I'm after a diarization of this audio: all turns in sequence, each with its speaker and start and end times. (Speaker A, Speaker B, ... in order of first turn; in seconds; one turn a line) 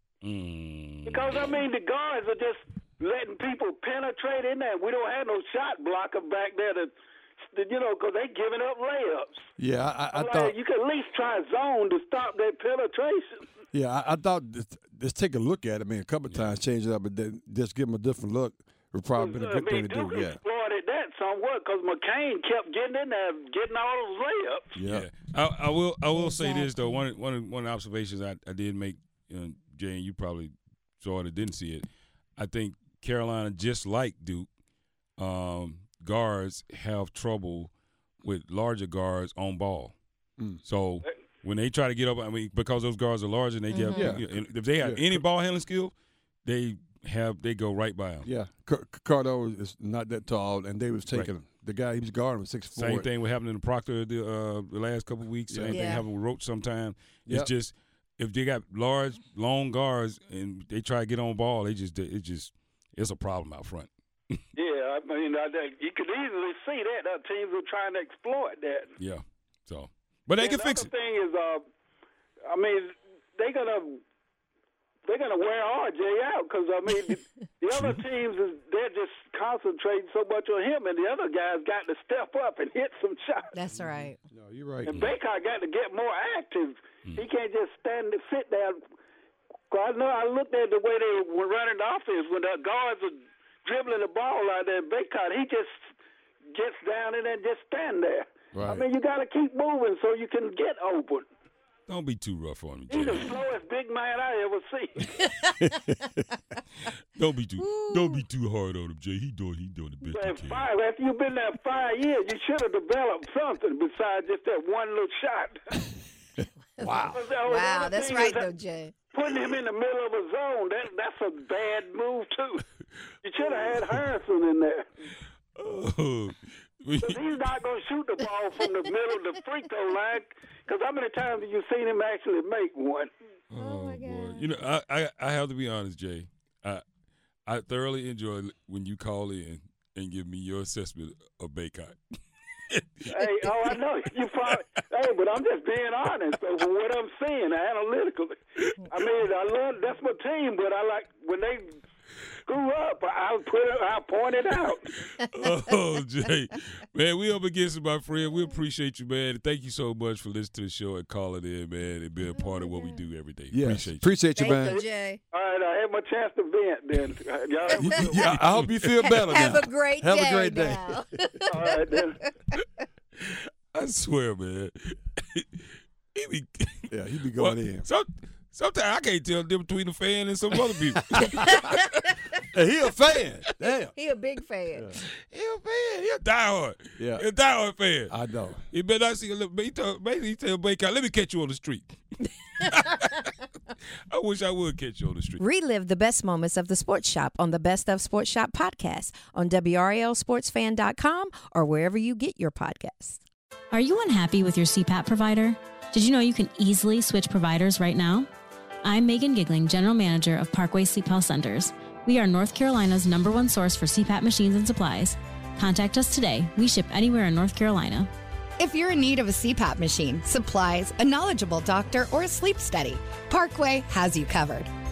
Speaker A: 0.2-1.6
Speaker B: 1.1-9.5
Speaker C: 9.6-10.6
Speaker B: 10.1-13.5
Speaker C: 13.7-20.4
Speaker A: 16.3-16.6
Speaker B: 19.2-24.7
Speaker C: 24.8-25.1
Speaker A: 24.8-34.5
Speaker D: 26.3-26.6
Speaker A: 35.2-37.7
Speaker A: 38.2-40.0
Speaker A: 40.6-45.9
Speaker C: 43.9-44.3
Speaker C: 44.8-45.2
Speaker A: 46.5-48.3
Speaker C: 48.2-53.1
Speaker A: 52.8-64.4
Speaker C: 55.5-55.9
Speaker B: 64.6-68.9
Speaker A: 69.0-70.9
Speaker B: 70.4-71.6
Speaker B: 72.5-74.0
Speaker B: 75.1-83.5
Speaker A: 77.7-78.0
Speaker D: 83.5-84.1
Speaker C: 83.7-85.0
Speaker B: 84.8-88.8
Speaker B: 89.7-95.7
Speaker B: 96.5-101.3
Speaker C: 98.5-98.8
Speaker A: 101.9-103.4
Speaker B: 102.9-105.0
Speaker C: 105.6-106.3
Speaker A: 107.2-110.7
Speaker D: 107.6-108.2
Speaker B: 110.1-115.6
Speaker C: 116.8-117.2
Speaker D: 117.0-119.0
Speaker B: 117.1-118.5
Speaker B: 119.1-122.6
Speaker B: 123.2-124.9
Speaker A: 125.6-127.3
Speaker B: 127.0-133.1
Speaker A: 133.5-136.8
Speaker D: 133.6-134.4
Speaker A: 137.5-142.0
Speaker A: 142.7-143.8
Speaker B: 143.1-148.4
Speaker B: 148.9-151.7
Speaker B: 152.5-154.9
Speaker A: 155.1-164.1
Speaker C: 163.5-164.8
Speaker D: 164.4-165.2
Speaker B: 164.7-168.1
Speaker C: 167.7-171.0
Speaker A: 168.1-169.1
Speaker D: 169.0-172.3
Speaker E: 169.1-169.4
Speaker E: 170.1-170.5
Speaker B: 171.5-172.2
Speaker A: 173.2-182.1
Speaker C: 176.9-177.9
Speaker C: 182.5-183.9
Speaker D: 184.0-184.8
Speaker A: 185.3-188.1
Speaker C: 187.0-187.2
Speaker C: 188.1-188.6
Speaker A: 188.7-195.4
Speaker E: 195.4-203.2
Speaker D: 196.0-197.9
Speaker D: 198.4-199.3
Speaker D: 200.0-201.6
Speaker F: 203.7-208.3
Speaker F: 208.8-218.1
Speaker G: 218.6-224.7